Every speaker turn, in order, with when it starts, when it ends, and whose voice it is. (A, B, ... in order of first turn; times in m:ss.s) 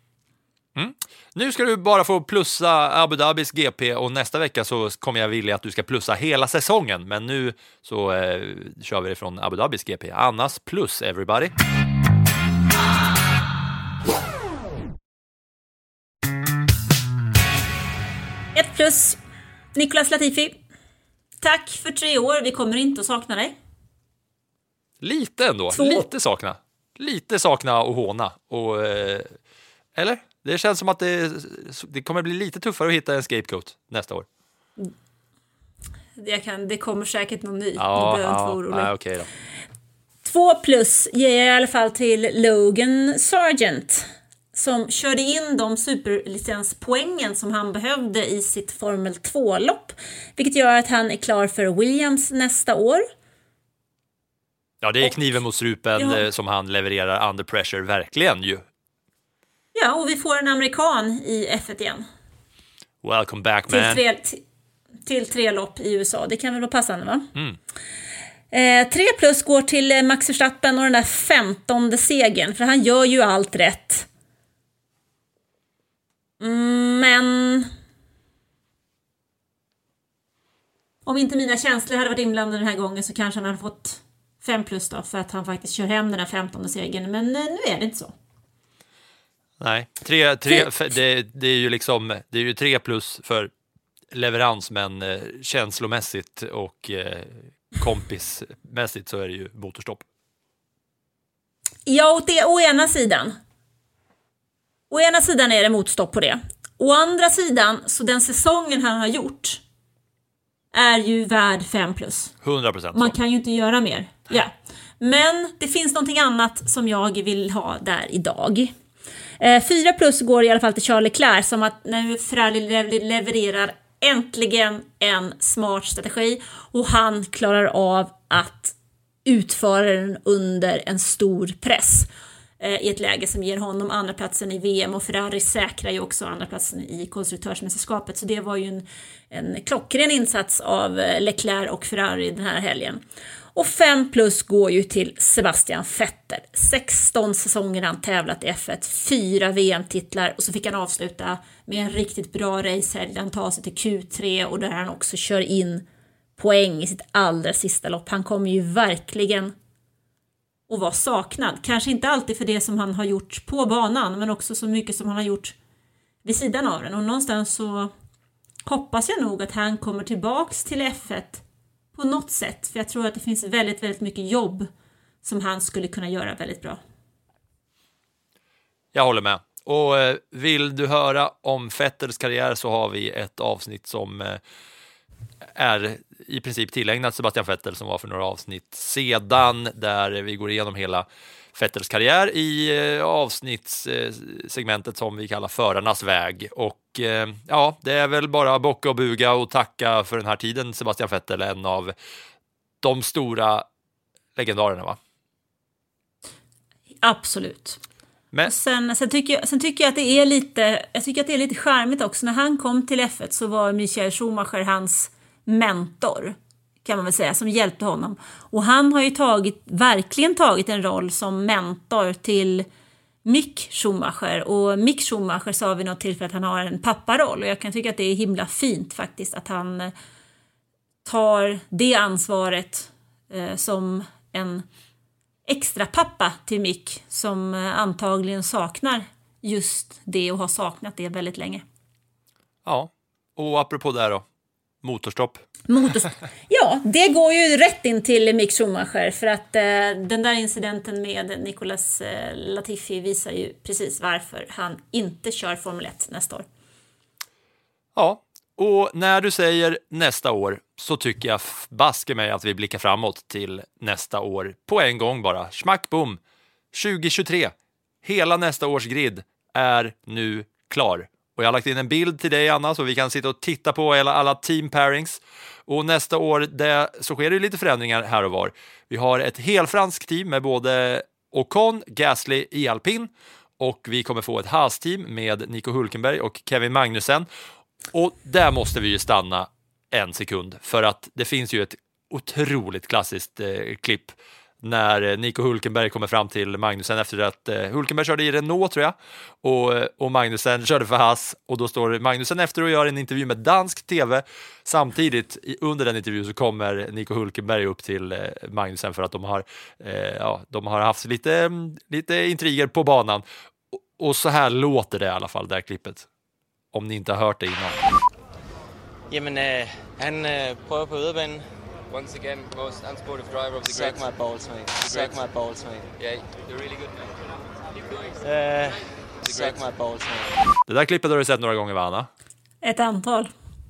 0:00.8-0:11.5 A
0:18.6-0:19.2 B
0:19.8-0:20.6 B
0:21.4-0:23.6 B
0:25.0-0:29.4 A
0:25.7-0:26.1 B
0:30.0-0:34.3 A
0:36.2-0:38.9 B
0:37.8-0:39.3 A
0:40.2-0:53.0 B
0:54.8-0:58.6 A
0:56.0-0:56.2 B
0:59.8-1:02.0 B
1:03.0-1:04.0 A
1:03.7-1:04.4 B
1:05.1-1:07.3 B
1:08.5-1:14.1 B
1:16.4-1:17.7 B
1:21.1-1:28.1 B
1:29.6-1:33.5 A
1:34.1-1:40.0 A
1:41.9-1:43.4 B
1:44.9-1:49.6 B
1:50.7-1:52.3 B
1:52.4-1:53.2 A
1:53.0-1:58.7 B
1:59.4-2:08.7 B
2:09.2-2:12.1 B
2:12.6-2:23.0 B
2:23.5-2:35.8 B
2:36.4-2:39.5 B
2:40.7-2:45.6 B
2:46.2-2:47.9 B
2:48.7-2:51.4 B
2:52.0-2:54.7 B
2:55.2-2:56.8 B
2:58.9-3:04.4 A
3:05.6-3:21.9 A
3:22.8-3:23.6 A
3:24.4-3:25.0 A
3:27.0-3:27.8 B
3:28.5-3:42.7 B
3:43.2-3:49.9 B
3:51.0-3:54.6 B
3:55.5-4:01.6 B
4:02.6-4:04.2 A
4:04.8-4:05.4 A
4:05.7-4:16.5 B
4:18.0-4:26.2 A
4:26.7-4:27.5 A
4:28.0-4:47.3 A
4:47.9-5:13.2 A
5:14.0-5:16.1 A
5:16.7-5:17.8 A
5:19.1-5:21.4 C
5:21.9-5:24.2 D
5:23.6-5:25.8 C
5:24.7-5:25.3 D
5:26.0-5:27.2 D
5:27.9-5:30.0 D
5:29.3-5:30.3 C
5:30.7-5:32.1 A
5:32.6-5:33.3 B